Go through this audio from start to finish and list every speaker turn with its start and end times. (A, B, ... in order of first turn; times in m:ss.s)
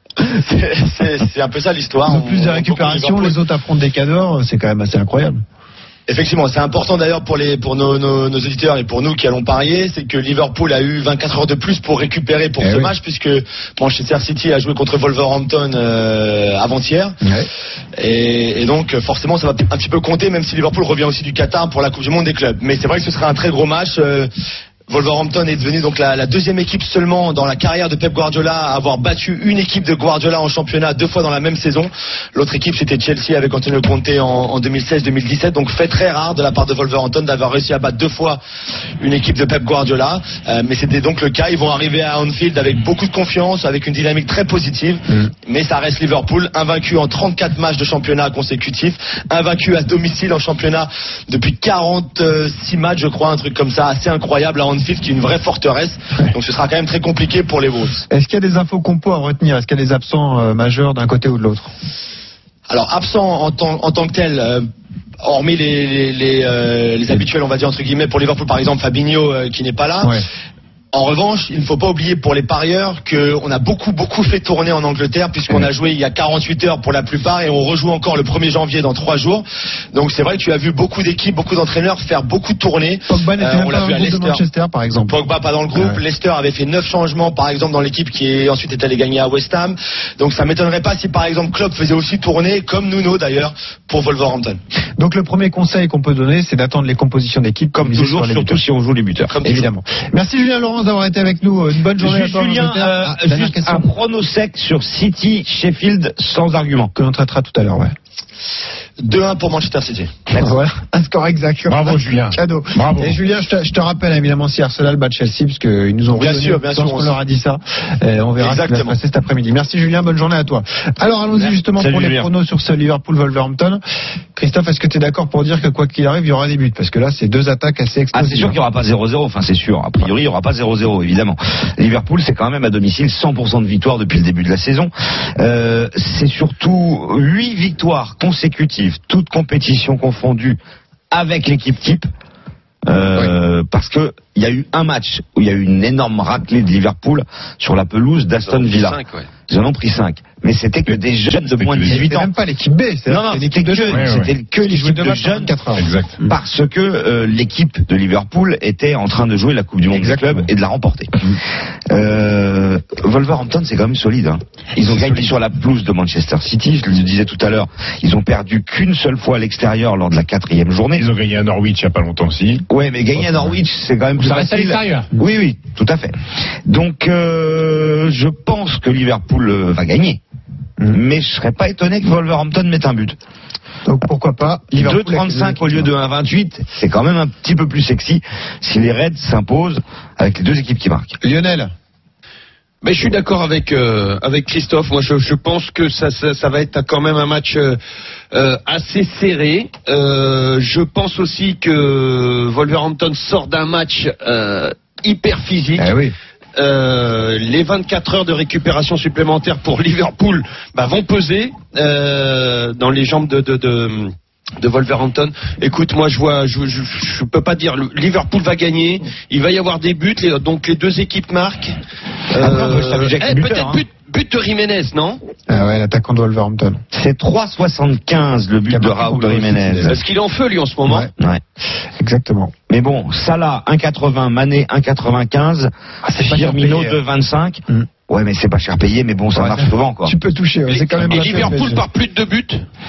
0:00.2-0:03.3 A
0:02.0-0:05.4 B
0:06.1-0:17.2 A
0:12.6-0:12.9 B
0:17.2-0:17.5 B
0:18.0-0:24.3 A
0:24.9-0:38.4 A
0:39.0-0:58.0 A
0:58.1-1:01.7 B
1:02.7-1:04.6 A
1:05.2-1:10.1 A
1:10.0-1:10.2 B
1:10.9-1:24.4 A
1:23.1-1:25.2 B
1:25.1-1:34.6 A
1:25.7-1:26.0 B
1:35.0-1:38.6 B
1:37.7-1:39.4 C
1:39.3-1:39.7 A
1:39.4-1:43.9 B
1:42.0-1:46.9 C
1:46.9-1:47.9 B
1:49.0-1:50.1 A
1:50.4-2:03.8 B
1:51.7-1:53.2 D
1:56.2-1:57.2 A
1:58.4-1:59.0 A
2:01.8-2:02.3 C
2:04.3-2:08.6 B
2:08.1-2:20.6 C
2:21.1-2:22.1 C
2:22.8-2:32.3 C
2:28.4-2:29.3 E
2:30.9-2:32.1 D
2:31.9-2:36.3 B
2:33.1-2:35.5 C
2:33.9-2:34.3 D
2:35.8-2:36.2 D
2:36.2-2:41.1 C
2:39.9-2:40.4 B
2:41.9-2:51.0 C
2:44.8-2:45.3 D
2:51.0-2:52.6 D
2:52.7-3:00.2 C
2:53.1-2:53.5 D
2:54.2-2:55.1 D
3:00.9-3:03.2 C
3:03.8-3:05.9 B
3:04.8-3:11.2 C
3:11.2-3:11.7 B
3:12.8-3:17.8 E
3:18.3-3:25.9 E
3:25.8-3:26.1 B
3:26.6-3:41.7 E
3:42.3-3:45.2 E
3:42.3-3:43.8 C
3:45.5-3:46.8 B
3:46.9-3:50.0 C
3:48.7-3:50.0 B
3:49.9-3:51.1 E
3:51.2-3:51.4 C
3:52.0-3:52.5 B
3:52.7-4:00.1 C
3:56.0-3:57.0 B
3:59.3-4:01.8 B
4:00.7-4:02.6 E
4:01.1-4:01.4 C